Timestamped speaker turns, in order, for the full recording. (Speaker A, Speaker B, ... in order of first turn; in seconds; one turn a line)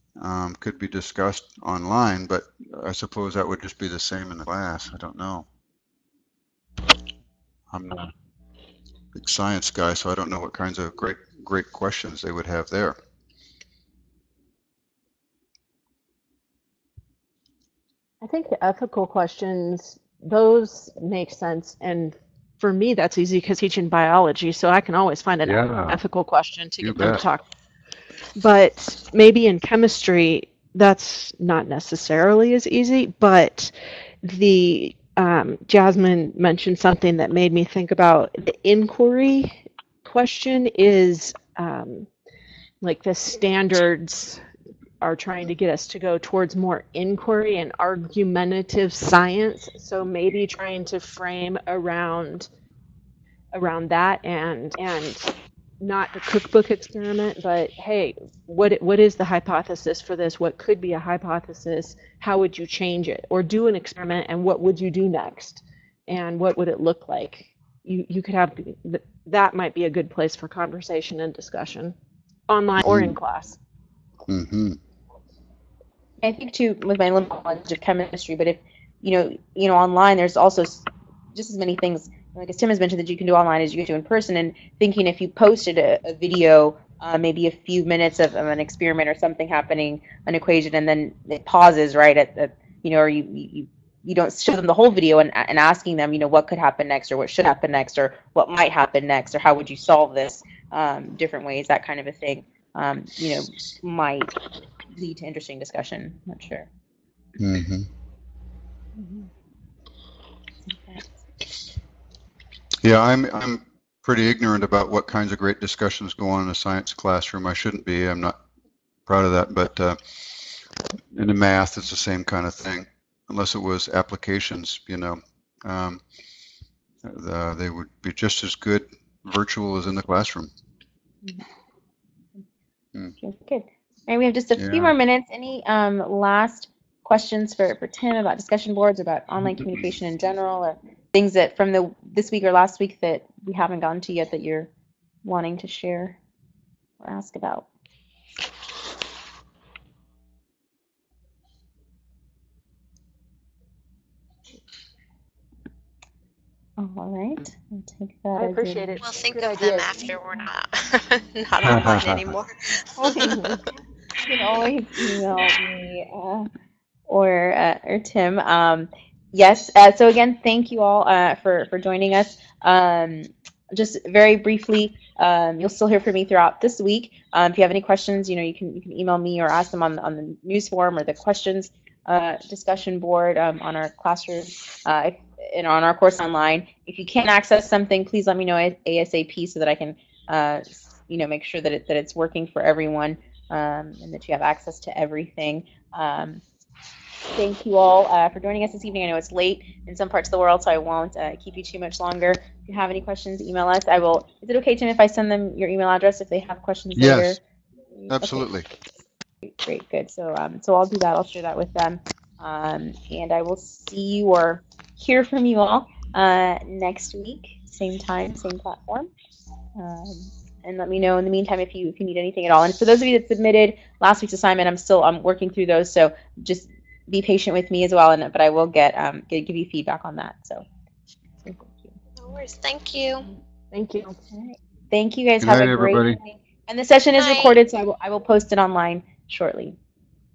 Speaker A: 0.2-5.5
Speaker A: 7.7-8.1
Speaker A: 9.1-12.9
Speaker B: 18.2-27.4
Speaker A: 25.4-26.0
Speaker A: 26.8-27.2
Speaker B: 28.4-42.1
Speaker B: 42.8-44.4
Speaker B: 45.0-52.5
Speaker B: 53.5-71.9
Speaker B: 72.5-73.6
Speaker A: 72.8-73.2
Speaker A: 74.3-74.8
Speaker C: 76.2-104.3
Speaker C: 104.9-106.7
Speaker A: 107.4-107.9
Speaker C: 110.7-111.0
Speaker A: 112.8-118.4
Speaker A: 119.0-120.4
Speaker A: 121.1-126.0
Speaker A: 127.0-130.5
Speaker C: 133.2-144.7
Speaker A: 134.6-134.9
Speaker C: 145.2-146.2
Speaker C: 147.0-147.7
Speaker C: 156.8-159.0
Speaker B: 158.3-160.1
Speaker D: 159.0-163.4
Speaker A: 161.6-162.2
Speaker C: 163.0-163.6
Speaker B: 163.2-163.6
Speaker C: 164.2-166.5
Speaker C: 167.1-196.4
Speaker C: 197.3-207.4
Speaker A: 206.9-207.4
Speaker C: 208.0-208.5
Speaker A: 208.1-208.7
Speaker C: 209.4-219.1
Speaker C: 219.8-230.6
Speaker C: 231.4-231.9
Speaker D: 232.2-233.2
Speaker B: 233.7-234.2
Speaker C: 234.3-239.8
Speaker A: 235.4-236.2
Speaker D: 237.1-237.6